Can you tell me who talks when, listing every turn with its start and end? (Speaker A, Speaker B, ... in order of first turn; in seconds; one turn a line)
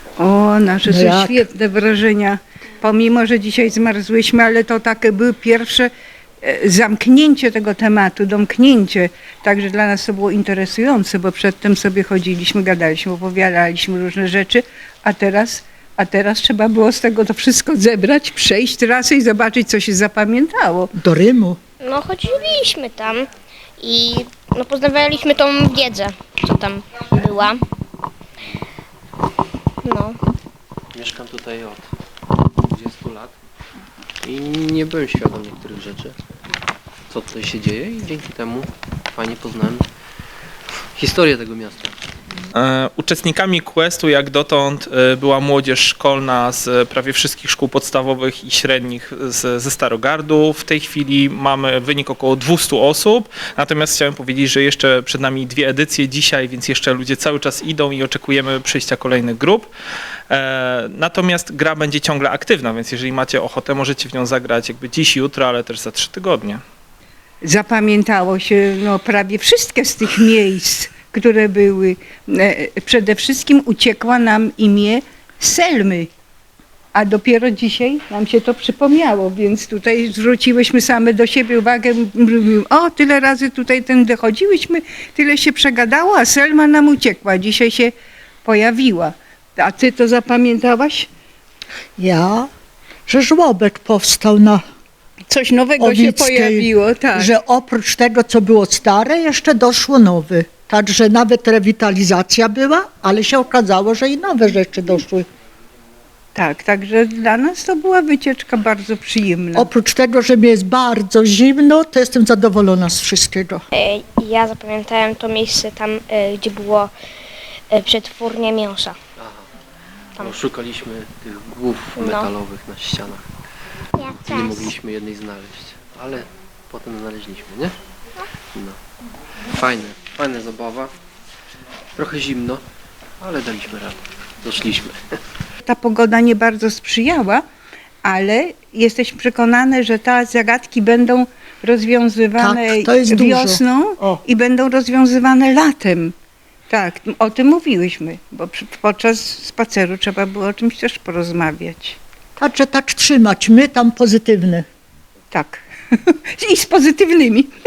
Speaker A: 0.2-20.9
Speaker B: 0.8-1.4
Speaker B: 20.9-21.6
Speaker C: 21.8-23.3
Speaker C: 23.8-27.6
Speaker C: 29.8-30.2
Speaker D: 30.9-31.9
Speaker D: 32.5-33.4
Speaker D: 34.2-36.2
Speaker D: 37.1-39.9
Speaker D: 41.0-42.0
Speaker E: 42.5-59.7
Speaker E: 60.3-66.6
Speaker A: 67.4-76.1
Speaker A: 76.9-87.9
Speaker A: 88.4-91.1
Speaker B: 92.0-92.5
Speaker B: 93.1-94.6
Speaker A: 95.3-97.3
Speaker B: 95.8-105.3
Speaker A: 106.3-109.7
Speaker B: 109.5-113.7
Speaker C: 113.7-116.9
Speaker C: 117.7-119.0
Speaker D: 119.2-119.5
Speaker D: 120.2-123.3
Speaker C: 122.0-122.3
Speaker C: 124.0-124.7
Speaker D: 124.0-127.8
Speaker D: 128.5-128.8
Speaker D: 129.4-130.9
Speaker D: 132.0-132.6
Speaker D: 133.2-135.2
Speaker A: 135.7-137.4
Speaker A: 138.0-146.2
Speaker B: 142.4-144.2
Speaker A: 146.7-152.0
Speaker B: 152.4-154.7
Speaker A: 155.3-157.5